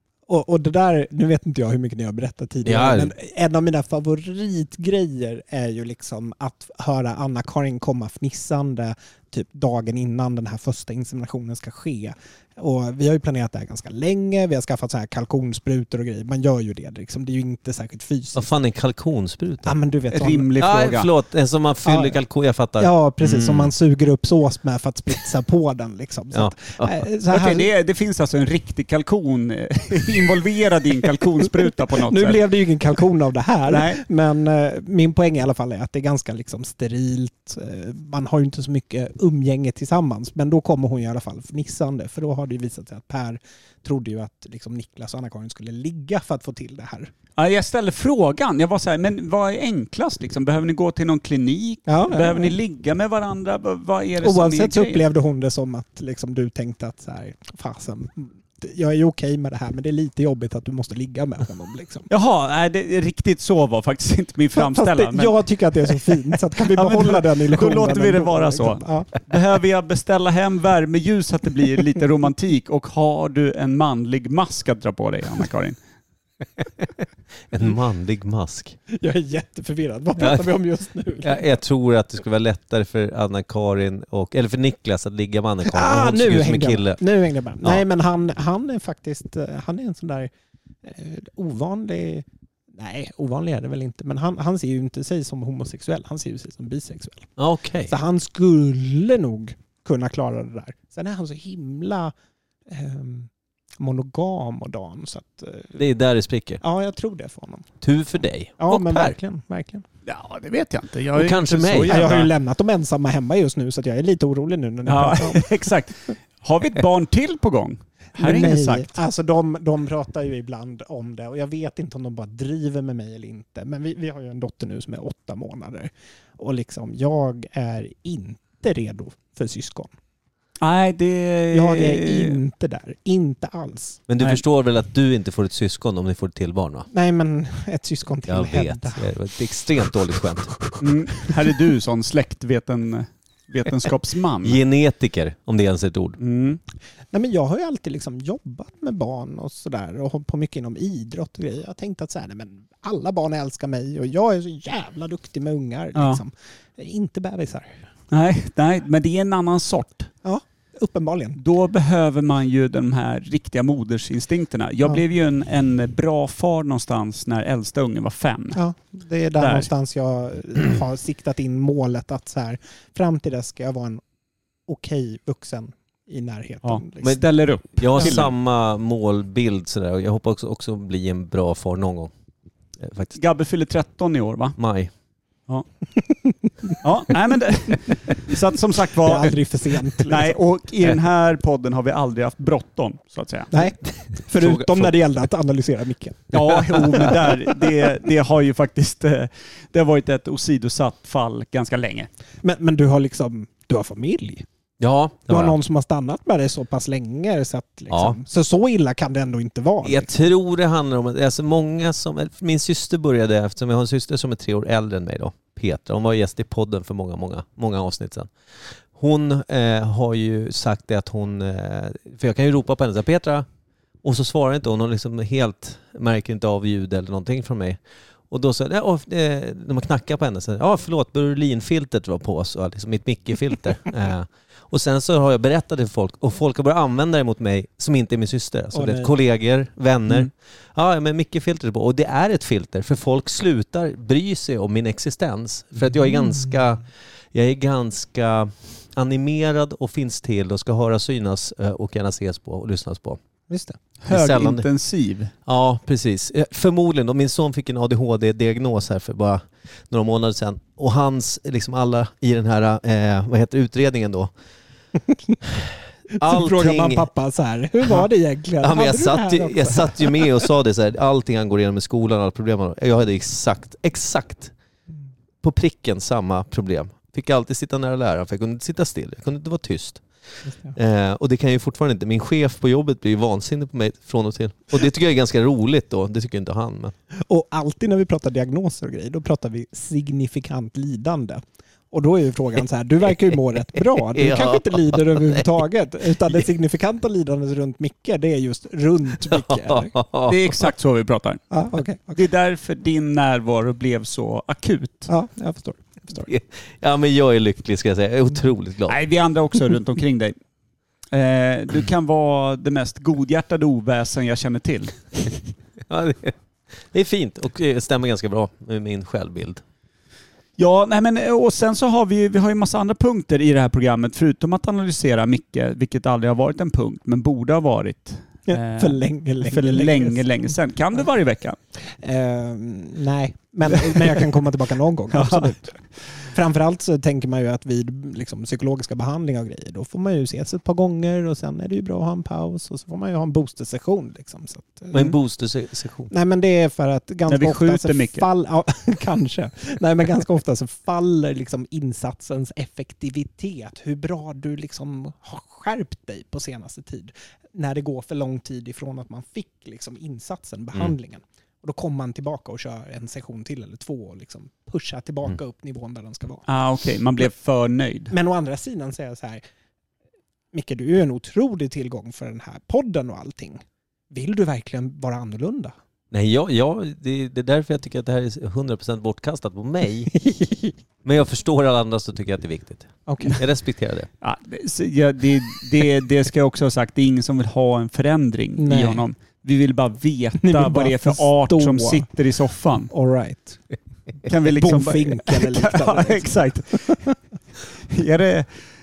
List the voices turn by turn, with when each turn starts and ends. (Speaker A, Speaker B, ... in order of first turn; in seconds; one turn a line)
Speaker A: 0.3-18.5
Speaker B: 2.6-3.1
Speaker B: 18.3-19.7
Speaker A: 19.6-20.5
Speaker C: 20.1-21.1
Speaker B: 20.6-23.7
Speaker A: 21.8-22.2
Speaker A: 22.8-27.7
Speaker B: 26.3-27.0
Speaker C: 27.3-32.4
Speaker A: 31.9-47.1
Speaker C: 33.7-34.0
Speaker C: 47.4-55.0
Speaker A: 51.9-52.6
Speaker A: 54.2-62.1
Speaker C: 62.1-65.3
Speaker A: 64.5-69.1
Speaker C: 66.7-75.8
Speaker B: 77.5-78.8
Speaker A: 78.9-81.6
Speaker B: 80.2-80.5
Speaker B: 81.2-87.0
Speaker A: 85.6-90.3
Speaker A: 90.8-97.3
Speaker B: 97.4-97.9
Speaker A: 97.9-102.1
Speaker A: 102.7-105.8
Speaker B: 105.8-106.6
Speaker A: 106.6-107.7
Speaker B: 107.8-109.1
Speaker A: 108.6-109.8
Speaker C: 110.0-112.3
Speaker B: 111.1-112.0
Speaker A: 111.9-115.5
Speaker C: 114.8-118.9
Speaker A: 118.2-129.9
Speaker C: 130.6-132.4
Speaker A: 131.5-134.0
Speaker B: 134.1-136.9
Speaker A: 136.9-139.1
Speaker B: 138.3-140.7
Speaker C: 140.8-144.6
Speaker B: 144.4-146.2
Speaker C: 146.2-146.6
Speaker A: 147.1-157.8
Speaker C: 155.9-156.2
Speaker C: 158.1-160.1
Speaker A: 160.2-161.4
Speaker C: 161.4-168.6
Speaker A: 168.5-174.0
Speaker C: 169.4-169.7
Speaker A: 174.7-177.2
Speaker C: 176.6-178.3
Speaker B: 177.0-182.1
Speaker A: 177.9-178.2
Speaker B: 182.8-183.2
Speaker C: 183.2-184.6
Speaker B: 184.6-184.9
Speaker C: 186.8-189.4
Speaker A: 189.0-190.4
Speaker C: 190.0-193.6
Speaker A: 193.5-197.1
Speaker B: 194.3-194.9
Speaker C: 196.3-202.1
Speaker A: 202.4-204.4
Speaker B: 204.8-205.6
Speaker A: 205.3-210.2
Speaker B: 207.9-208.2
Speaker B: 209.8-218.3
Speaker B: 218.9-223.4
Speaker B: 224.0-227.8
Speaker B: 228.3-253.2
Speaker A: 238.7-239.1
Speaker A: 253.5-253.8
Speaker C: 254.0-255.3
Speaker B: 254.1-254.7
Speaker B: 255.4-264.3
Speaker B: 266.1-267.0
Speaker A: 266.2-270.5
Speaker B: 268.6-274.5
Speaker B: 275.4-286.9
Speaker A: 287.1-299.9
Speaker B: 294.1-295.4
Speaker B: 299.7-300.4
Speaker C: 300.3-301.4
Speaker A: 301.5-302.2
Speaker C: 302.1-305.1
Speaker A: 305.1-306.3
Speaker B: 306.2-309.0
Speaker C: 308.9-310.4
Speaker C: 311.1-315.3
Speaker B: 315.9-316.3
Speaker B: 316.9-319.6
Speaker C: 320.6-331.6
Speaker A: 328.5-330.5
Speaker A: 331.9-345.1
Speaker C: 335.1-335.5
Speaker B: 344.9-346.1
Speaker A: 346.1-366.4
Speaker C: 347.3-348.2
Speaker C: 366.5-368.1
Speaker A: 368.1-369.4
Speaker A: 370.5-375.7
Speaker B: 376.1-380.1
Speaker A: 380.2-380.7
Speaker B: 381.0-384.1
Speaker A: 383.1-383.4
Speaker C: 384.2-392.9
Speaker A: 388.6-389.1
Speaker A: 390.4-392.1
Speaker A: 392.9-393.6
Speaker C: 394.2-397.0
Speaker A: 394.4-397.1
Speaker C: 397.9-398.5